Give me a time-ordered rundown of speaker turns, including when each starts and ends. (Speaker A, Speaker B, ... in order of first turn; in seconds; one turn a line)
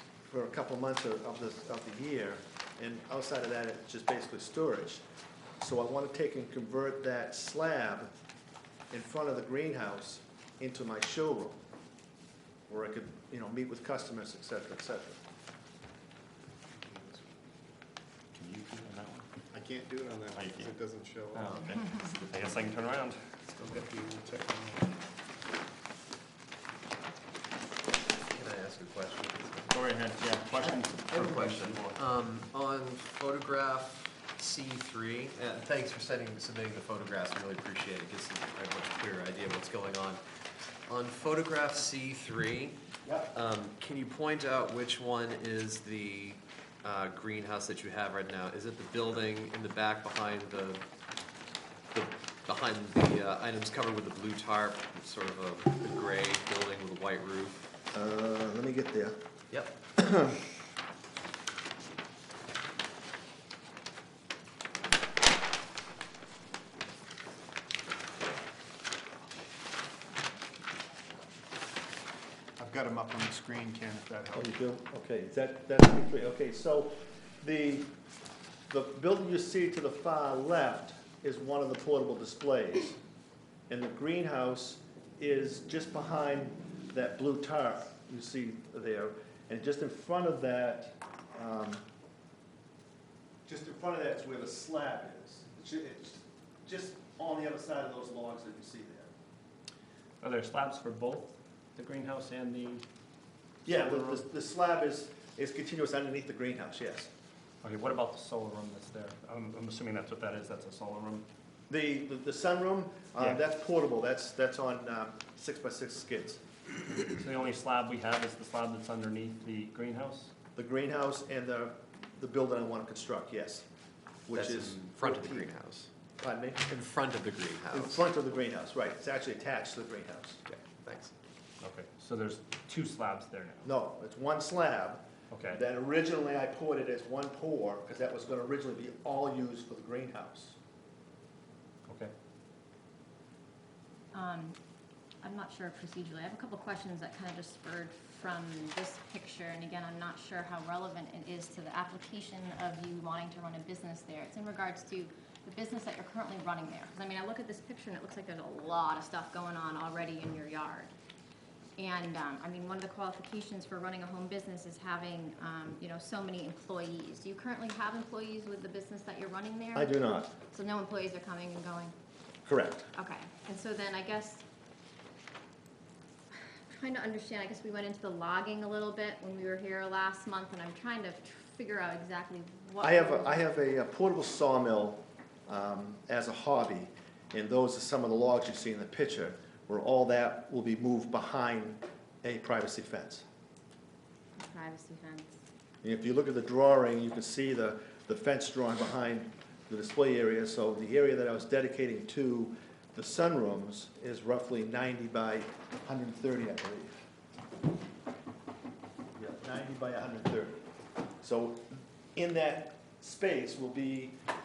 Speaker A: 0.3-5.0
Speaker A: 5.6-8.1
Speaker A: 8.9-11.6
Speaker A: 12.7-15.2
Speaker B: 16.8-17.3
Speaker C: 18.4-19.3
Speaker B: 19.5-22.6
Speaker C: 20.3-20.8
Speaker C: 21.3-23.9
Speaker B: 23.6-24.9
Speaker D: 28.3-29.8
Speaker C: 29.7-32.0
Speaker D: 30.8-40.2
Speaker D: 40.9-50.8
Speaker A: 43.0-43.3
Speaker D: 51.9-57.7
Speaker A: 57.9-59.2
Speaker D: 59.5-59.8
Speaker A: 60.0-60.4
Speaker B: 72.6-74.5
Speaker A: 74.3-77.9
Speaker A: 78.7-83.0
Speaker A: 83.7-91.8
Speaker A: 93.5-99.1
Speaker C: 100.2-102.8
Speaker A: 103.7-107.1
Speaker C: 103.7-104.2
Speaker C: 107.6-111.3
Speaker A: 111.7-116.4
Speaker C: 117.0-120.3
Speaker A: 120.6-123.7
Speaker A: 124.3-125.5
Speaker D: 124.3-125.9
Speaker A: 126.2-126.7
Speaker D: 126.6-128.1
Speaker A: 127.7-130.4
Speaker D: 130.5-131.1
Speaker C: 131.6-133.7
Speaker A: 133.7-140.6
Speaker C: 135.3-135.6
Speaker C: 141.9-142.1
Speaker E: 144.1-144.6
Speaker E: 145.2-160.9
Speaker E: 161.8-171.9
Speaker A: 169.8-170.3
Speaker A: 172.5-172.9
Speaker E: 172.9-174.4
Speaker E: 176.3-183.4
Speaker A: 182.8-193.2
Speaker E: 194.4-195.4
Speaker A: 195.8-207.0
Speaker A: 209.2-210.6
Speaker A: 211.2-214.2